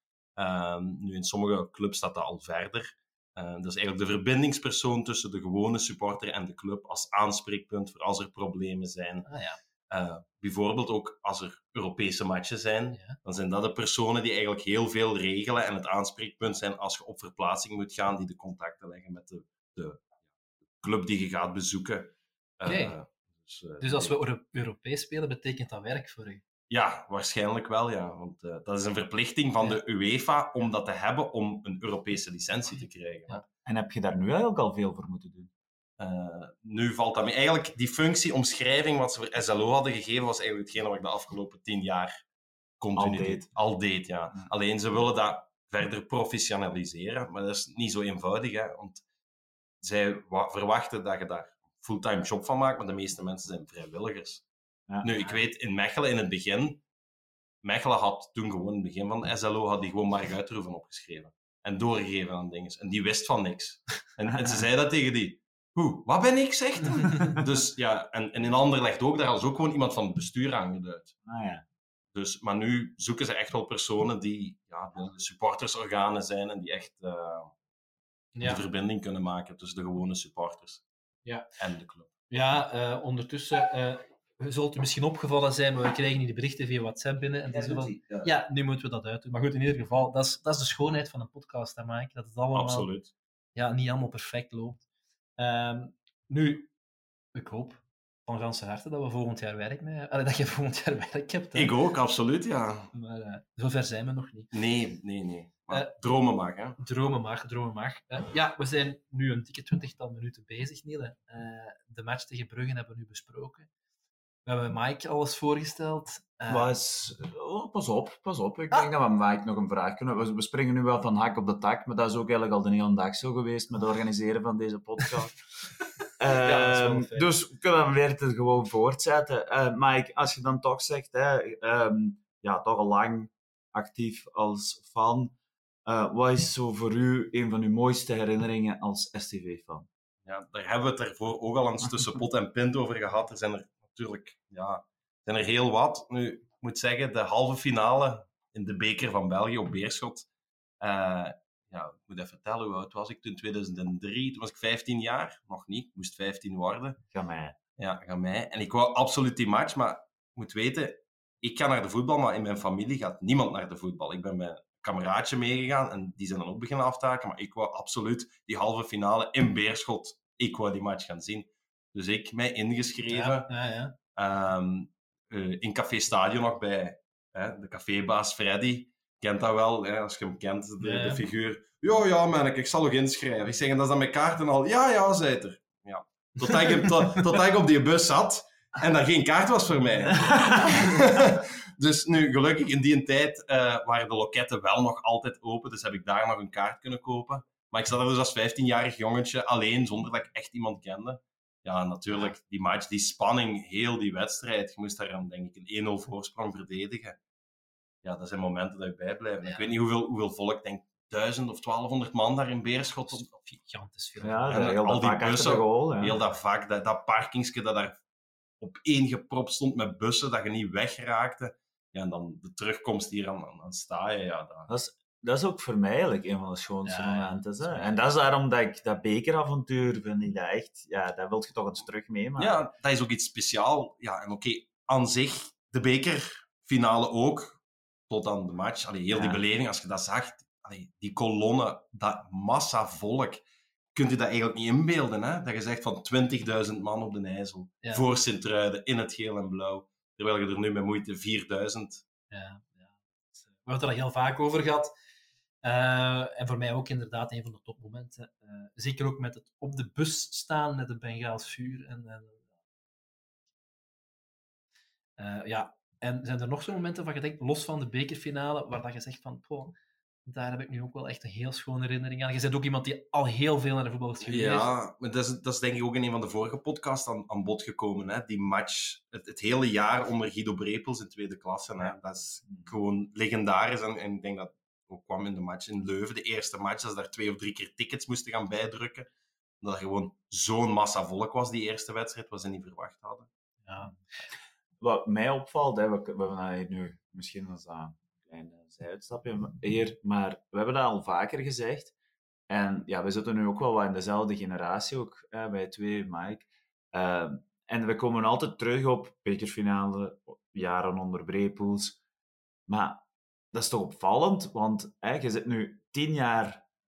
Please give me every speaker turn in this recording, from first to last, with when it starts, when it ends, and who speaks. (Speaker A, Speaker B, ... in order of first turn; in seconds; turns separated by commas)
Speaker A: 0.4-9.3, Speaker B: 9.3-9.6, Speaker A: 9.9-20.0, Speaker B: 12.9-13.2, Speaker A: 20.8-24.1, Speaker B: 22.7-23.0, Speaker B: 23.8-26.4, Speaker A: 26.7-33.4, Speaker C: 33.7-35.5, Speaker A: 36.0-42.1, Speaker A: 42.8-49.0, Speaker C: 43.0-43.5, Speaker A: 49.8-54.5, Speaker C: 54.9-55.3, Speaker A: 55.0-56.8, Speaker A: 57.6-71.1, Speaker C: 71.3-71.6, Speaker A: 72.1-77.5, Speaker B: 78.3-78.6, Speaker A: 78.4-80.8, Speaker A: 81.6-82.1, Speaker B: 82.3-92.9, Speaker C: 87.5-88.2, Speaker A: 92.5-93.1, Speaker B: 93.5-94.8, Speaker B: 95.4-96.7, Speaker B: 97.3-101.7, Speaker A: 101.5-102.9, Speaker B: 102.9-104.5, Speaker A: 104.5-106.8, Speaker B: 106.8-113.7, Speaker B: 114.5-116.7, Speaker C: 116.5-125.4, Speaker C: 126.2-135.3, Speaker B: 126.3-127.3, Speaker C: 135.9-139.9, Speaker A: 140.2-150.3, Speaker A: 150.8-157.0, Speaker C: 157.1-157.6, Speaker A: 157.8-173.5, Speaker B: 173.1-173.9, Speaker A: 174.2-207.2, Speaker B: 180.8-181.2, Speaker A: 208.0-213.3, Speaker B: 213.0-214.6, Speaker C: 214.2-216.2, Speaker A: 214.5-218.0, Speaker A: 218.6-224.7, Speaker C: 224.7-232.6, Speaker B: 226.9-228.0, Speaker A: 232.4-252.0, Speaker C: 239.1-239.4, Speaker B: 252.3-254.9, Speaker B: 255.6-262.5, Speaker B: 265.2-274.7, Speaker A: 274.2-289.1, Speaker C: 282.5-282.7, Speaker A: 289.6-293.3, Speaker B: 293.6-294.0, Speaker C: 294.8-301.9, Speaker C: 302.5-312.0, Speaker C: 312.7-316.6